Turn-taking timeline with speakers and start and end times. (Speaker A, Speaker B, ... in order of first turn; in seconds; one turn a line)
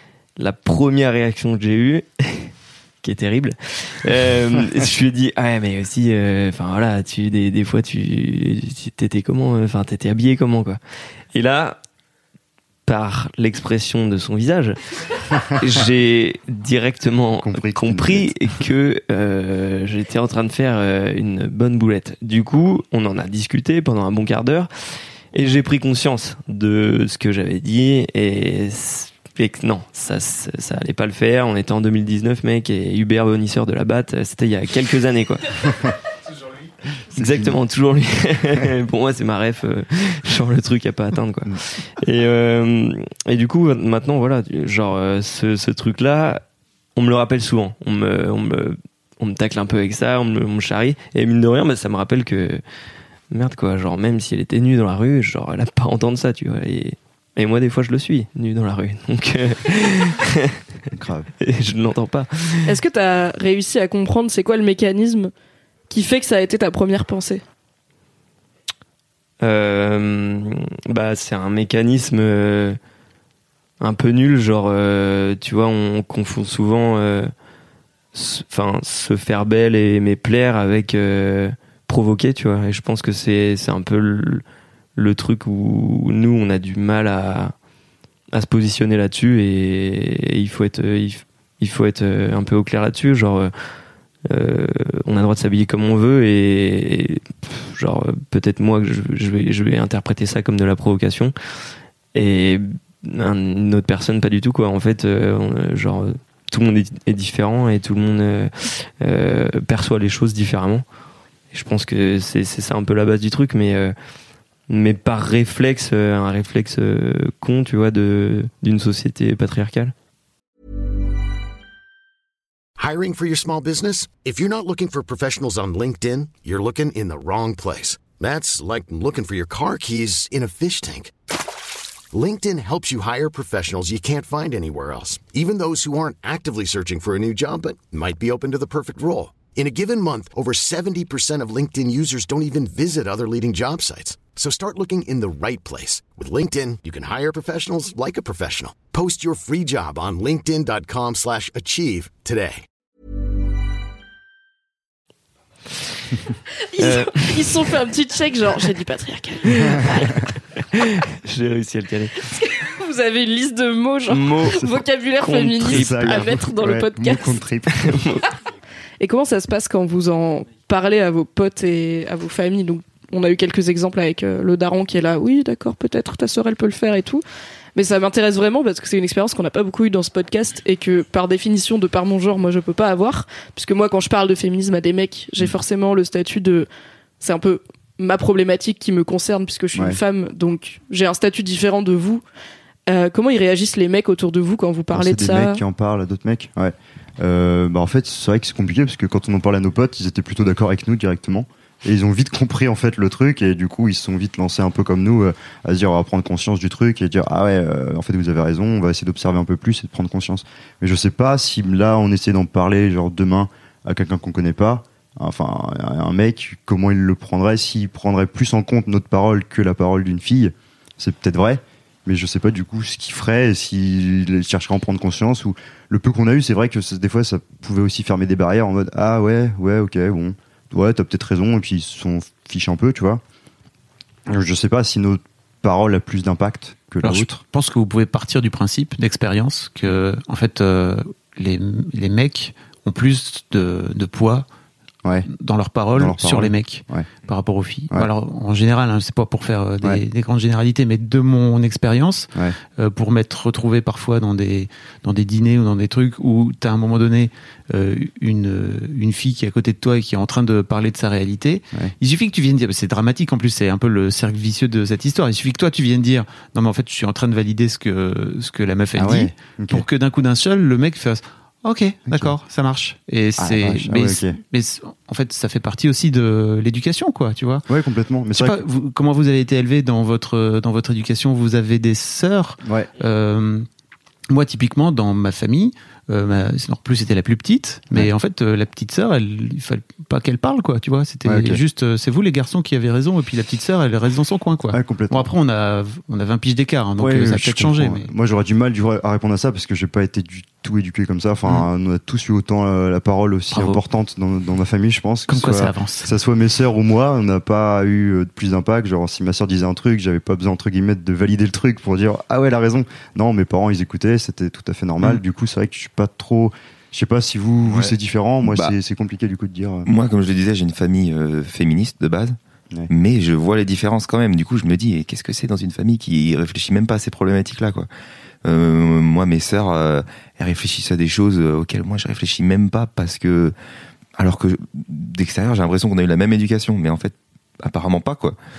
Speaker A: 0.4-10.8
Speaker A: 11.3-11.8
Speaker A: 12.8-24.7
Speaker B: 17.4-18.4
Speaker A: 25.3-36.0
Speaker A: 37.1-46.4
Speaker B: 37.1-37.6
Speaker A: 47.0-52.6
Speaker A: 53.3-60.6
Speaker B: 60.9-61.3
Speaker A: 61.4-62.7
Speaker C: 62.6-65.3
Speaker C: 65.9-67.4
Speaker A: 69.4-72.8
Speaker A: 73.8-77.3
Speaker A: 78.1-84.4
Speaker A: 85.0-87.5
Speaker A: 88.3-93.5
Speaker A: 94.3-101.3
Speaker A: 102.1-110.8
Speaker A: 111.5-113.9
Speaker A: 114.7-119.9
Speaker D: 122.8-131.1
Speaker D: 132.1-152.6
Speaker C: 156.7-159.9
Speaker A: 156.8-157.7
Speaker A: 159.5-162.3
Speaker C: 162.4-167.4
Speaker A: 164.1-164.7
Speaker B: 164.4-164.7
Speaker A: 165.2-166.3
Speaker B: 165.6-168.1
Speaker A: 167.8-168.3
Speaker C: 169.0-177.2
Speaker C: 177.7-186.7
Speaker C: 187.2-192.2
Speaker C: 192.9-195.6
Speaker B: 194.9-233.2
Speaker B: 234.3-237.4
Speaker E: 237.0-244.4
Speaker E: 245.2-277.6
Speaker B: 245.9-247.1
Speaker B: 268.9-269.8
Speaker B: 272.1-272.3
Speaker B: 273.4-274.4
Speaker B: 277.7-278.6
Speaker E: 278.4-283.7
Speaker E: 284.3-298.1
Speaker B: 291.2-291.6
Speaker B: 294.7-295.3
Speaker B: 297.0-319.9
Speaker E: 303.5-303.8
Speaker E: 305.3-306.1
Speaker F: 317.7-317.9
Speaker F: 318.4-318.7
Speaker F: 319.9-322.4
Speaker F: 322.9-327.9
Speaker F: 328.4-333.5
Speaker F: 334.2-338.4